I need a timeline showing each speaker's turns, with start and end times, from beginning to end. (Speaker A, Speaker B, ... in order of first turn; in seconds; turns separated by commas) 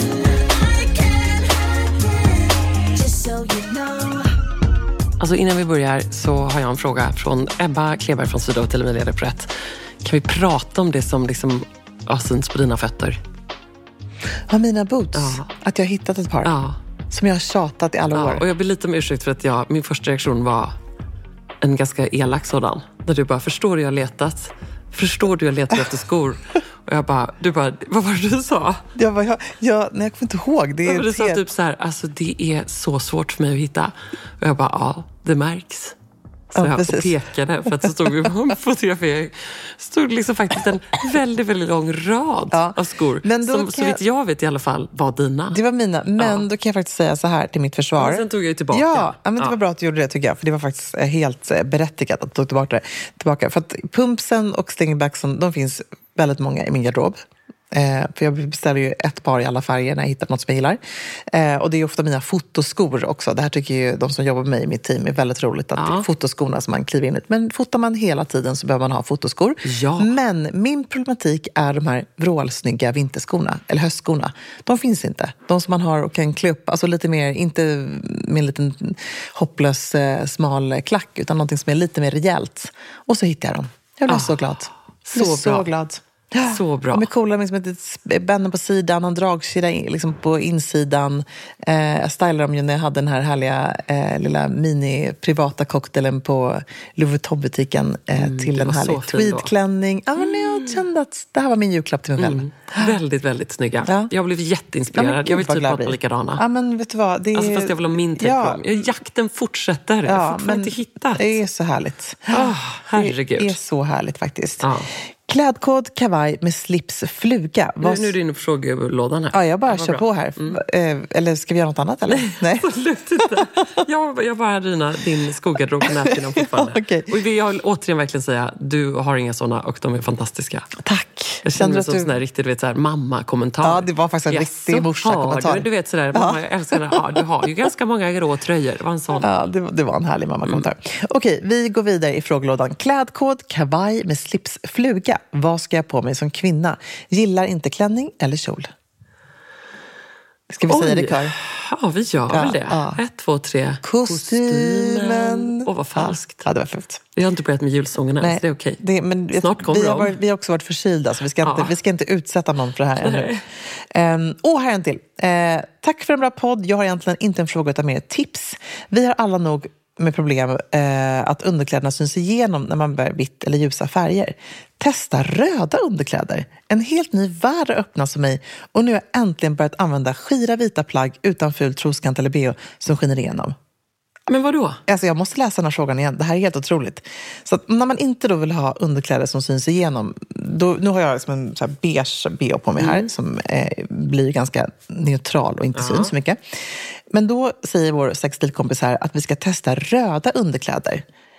Speaker A: 5.2-13.2, Speaker B: 14.5-16.6, Speaker A: 15.2-15.5, Speaker A: 16.4-16.8, Speaker B: 17.1-18.4, Speaker A: 18.1-20.8, Speaker A: 21.6-28.8, Speaker B: 28.9-31.4, Speaker A: 30.9-36.0, Speaker A: 36.5-45.6, Speaker B: 36.5-38.2, Speaker B: 42.5-44.0, Speaker B: 45.5-57.2, Speaker A: 46.2-46.5, Speaker A: 48.0-49.5, Speaker B: 57.7-103.0, Speaker A: 65.8-66.1, Speaker A: 69.6-70.1, Speaker A: 84.1-85.7, Speaker A: 86.4-87.1, Speaker A: 98.2-99.5, Speaker A: 100.2-100.8, Speaker A: 102.2-106.4, Speaker B: 103.9-104.1, Speaker B: 104.9-108.9, Speaker A: 107.3-111.4, Speaker B: 110.0-118.1, Speaker A: 112.3-113.6, Speaker A: 114.6-114.9, Speaker A: 117.8-120.6, Speaker B: 119.3-123.8, Speaker A: 122.1-130.7, Speaker B: 125.8-127.1, Speaker B: 130.8-132.1, Speaker A: 131.4-139.3, Speaker B: 133.6-137.5, Speaker B: 139.2-148.7, Speaker B: 150.5-151.3, Speaker A: 150.7-156.4, Speaker B: 152.3-153.0, Speaker B: 153.8-157.0, Speaker A: 157.2-158.8, Speaker B: 158.2-183.6, Speaker A: 159.4-160.2, Speaker A: 161.4-161.7, Speaker A: 163.0-163.4, Speaker A: 184.3-184.8, Speaker B: 184.9-201.1, Speaker A: 192.8-193.1, Speaker A: 195.8-196.1